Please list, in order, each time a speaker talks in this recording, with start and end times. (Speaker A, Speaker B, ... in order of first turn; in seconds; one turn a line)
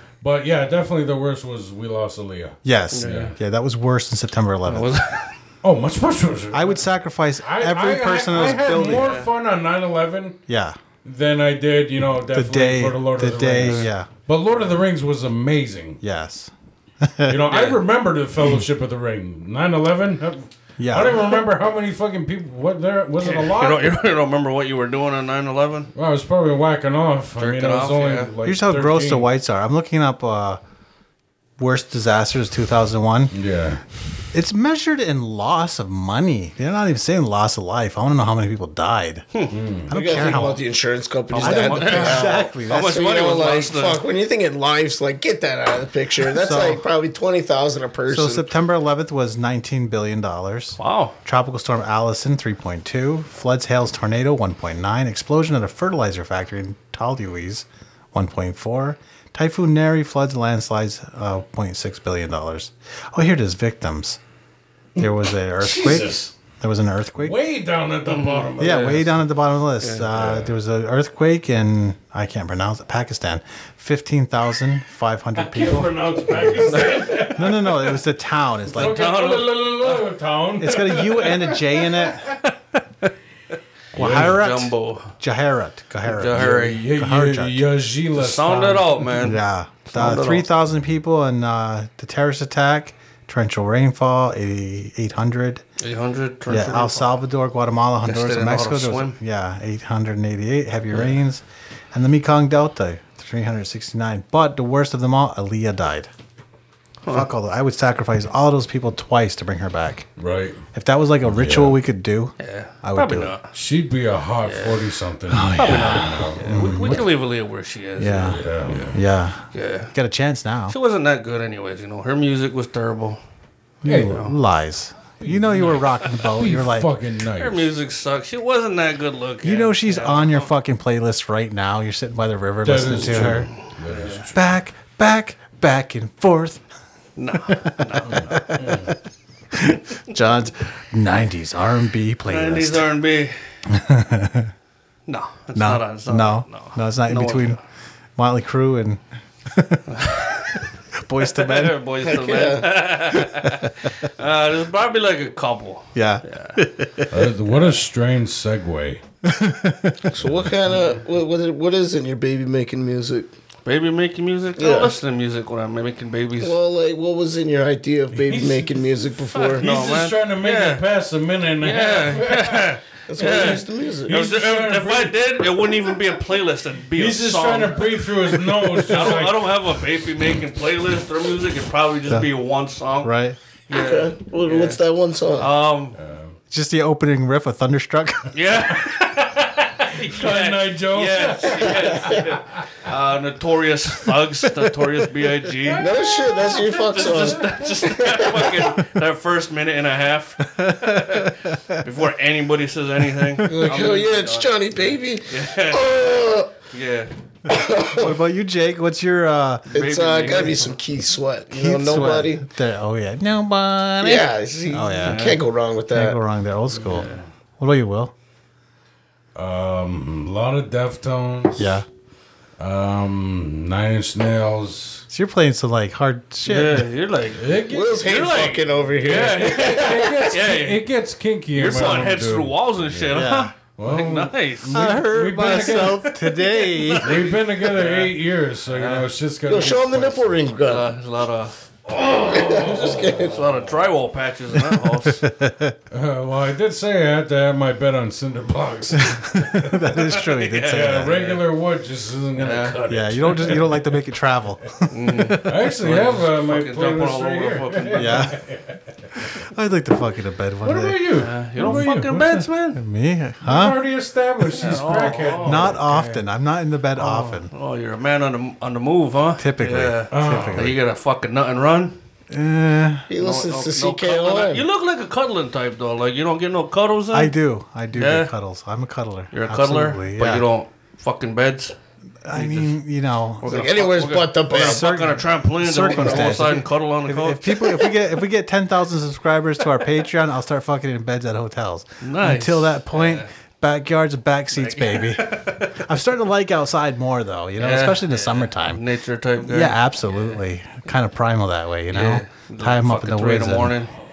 Speaker A: 0.2-3.4
Speaker B: 2.6-4.9
Speaker C: 2.9-3.4
Speaker C: 4.7-5.3
Speaker A: 5.6-6.8
Speaker B: 6.5-9.1
Speaker A: 7.4-10.4
Speaker C: 8.9-9.3
Speaker B: 10.5-10.8
Speaker A: 11.1-16.0
Speaker B: 12.3-14.1
Speaker C: 13.6-13.9
Speaker B: 16.0-17.5
Speaker A: 17.3-24.0
Speaker C: 17.5-17.8
Speaker B: 20.8-21.4
Speaker C: 23.2-25.9
Speaker A: 25.9-29.3
Speaker C: 27.4-28.3
Speaker B: 28.4-30.6
Speaker B: 31.6-33.4
Speaker A: 33.3-33.8
Speaker B: 34.3-39.3
Speaker A: 39.5-40.0
Speaker B: 39.9-40.6
Speaker D: 39.9-48.5
Speaker B: 41.3-43.0
Speaker C: 41.3-44.0
Speaker B: 46.3-46.8
Speaker B: 48.1-64.2
Speaker C: 50.8-51.1
Speaker B: 65.0-67.4
Speaker A: 65.6-66.3
Speaker A: 67.2-69.2
Speaker C: 68.1-69.0
Speaker B: 68.6-79.0
Speaker A: 70.0-70.5
Speaker A: 75.4-78.0
Speaker C: 76.3-77.3
Speaker A: 78.7-82.1
Speaker C: 78.7-80.1
Speaker B: 80.6-82.3
Speaker C: 82.4-83.1
Speaker B: 83.9-87.6
Speaker A: 84.0-84.4
Speaker C: 84.0-85.1
Speaker C: 86.0-86.8
Speaker A: 86.3-89.1
Speaker C: 88.2-90.5
Speaker B: 89.1-95.7
Speaker C: 95.8-97.1
Speaker B: 96.5-106.1
Speaker C: 98.0-99.2
Speaker C: 107.0-107.3
Speaker B: 107.1-110.1
Speaker A: 110.2-110.6
Speaker B: 110.7-113.3
Speaker A: 111.3-111.8
Speaker C: 112.4-113.5
Speaker A: 113.5-117.0
Speaker C: 114.4-114.8
Speaker B: 115.3-117.0
Speaker C: 115.6-119.0
Speaker B: 118.0-120.8
Speaker A: 118.2-119.0
Speaker C: 119.5-119.9
Speaker C: 120.7-123.2
Speaker B: 123.8-126.9
Speaker A: 123.8-124.3
Speaker C: 124.0-124.3
Speaker A: 125.2-127.7
Speaker C: 127.4-130.5
Speaker B: 129.4-133.5
Speaker A: 132.6-134.4
Speaker C: 133.3-134.3
Speaker B: 134.3-136.6
Speaker C: 137.2-138.4
Speaker B: 137.5-138.9
Speaker A: 138.1-138.9
Speaker B: 139.5-142.9
Speaker C: 142.3-143.4
Speaker B: 143.7-144.5
Speaker C: 145.1-147.6
Speaker B: 145.6-147.6
Speaker B: 148.2-151.8
Speaker C: 149.9-150.6
Speaker C: 151.3-156.6
Speaker D: 152.0-152.7
Speaker B: 153.2-153.9
Speaker B: 155.9-157.3
Speaker A: 157.1-159.0
Speaker B: 159.2-160.2
Speaker A: 160.2-160.6
Speaker D: 160.2-163.3
Speaker C: 163.7-166.6
Speaker D: 164.6-164.9
Speaker D: 166.4-169.7
Speaker A: 168.1-168.8
Speaker C: 169.3-170.8
Speaker A: 169.6-175.6
Speaker C: 171.6-177.8
Speaker D: 173.1-174.2
Speaker A: 176.9-179.6
Speaker C: 178.7-183.2
Speaker B: 183.0-183.4
Speaker C: 183.7-184.8
Speaker D: 183.7-185.5
Speaker C: 185.4-186.0
Speaker A: 186.0-186.4
Speaker B: 186.5-188.3
Speaker C: 188.3-205.9
Speaker A: 188.7-189.0
Speaker A: 189.9-192.6
Speaker D: 191.6-192.2
Speaker A: 195.7-197.5
Speaker D: 195.8-198.8
Speaker B: 200.4-201.8
Speaker B: 203.2-203.6
Speaker D: 203.4-206.5
Speaker C: 206.7-207.1
Speaker D: 207.5-208.2
Speaker B: 207.5-209.7
Speaker C: 209.7-210.8
Speaker D: 209.7-212.4
Speaker B: 211.5-217.1
Speaker D: 214.0-216.2
Speaker C: 215.0-215.4
Speaker C: 216.7-217.2
Speaker B: 217.6-218.1
Speaker A: 219.3-221.8
Speaker B: 221.6-221.9
Speaker A: 222.6-225.1
Speaker B: 225.1-226.9
Speaker C: 226.5-230.8
Speaker A: 227.4-228.0
Speaker D: 227.7-230.3
Speaker A: 229.0-233.2
Speaker C: 231.6-234.9
Speaker B: 233.1-233.5
Speaker A: 233.8-236.1
Speaker B: 234.7-237.2
Speaker C: 236.0-238.1
Speaker A: 237.0-240.4
Speaker C: 238.7-239.1
Speaker D: 239.5-240.9
Speaker C: 240.6-245.3
Speaker D: 242.0-243.5
Speaker B: 244.6-245.8
Speaker A: 245.9-254.0
Speaker B: 248.9-251.3
Speaker C: 249.9-251.4
Speaker C: 252.4-252.8
Speaker B: 252.9-255.4
Speaker C: 254.9-258.3
Speaker A: 255.4-258.8
Speaker B: 257.9-258.4
Speaker B: 259.3-261.0
Speaker A: 260.6-262.5
Speaker C: 261.2-262.8
Speaker B: 262.8-263.8
Speaker A: 263.4-265.8
Speaker C: 264.5-266.2
Speaker B: 265.4-267.5
Speaker C: 267.0-272.0
Speaker B: 269.4-270.8
Speaker A: 270.1-270.8
Speaker B: 272.3-273.1
Speaker D: 273.1-274.6
Speaker C: 273.2-277.4
Speaker B: 277.1-280.5
Speaker C: 277.9-278.3
Speaker C: 279.3-281.8
Speaker B: 282.2-283.6
Speaker C: 282.3-282.7
Speaker C: 283.4-287.9
Speaker D: 283.4-285.1
Speaker B: 284.5-298.8
Speaker D: 285.8-286.7
Speaker C: 292.0-293.3
Speaker C: 294.5-295.8
Speaker C: 297.6-300.4
Speaker B: 299.4-303.8
Speaker C: 301.9-303.9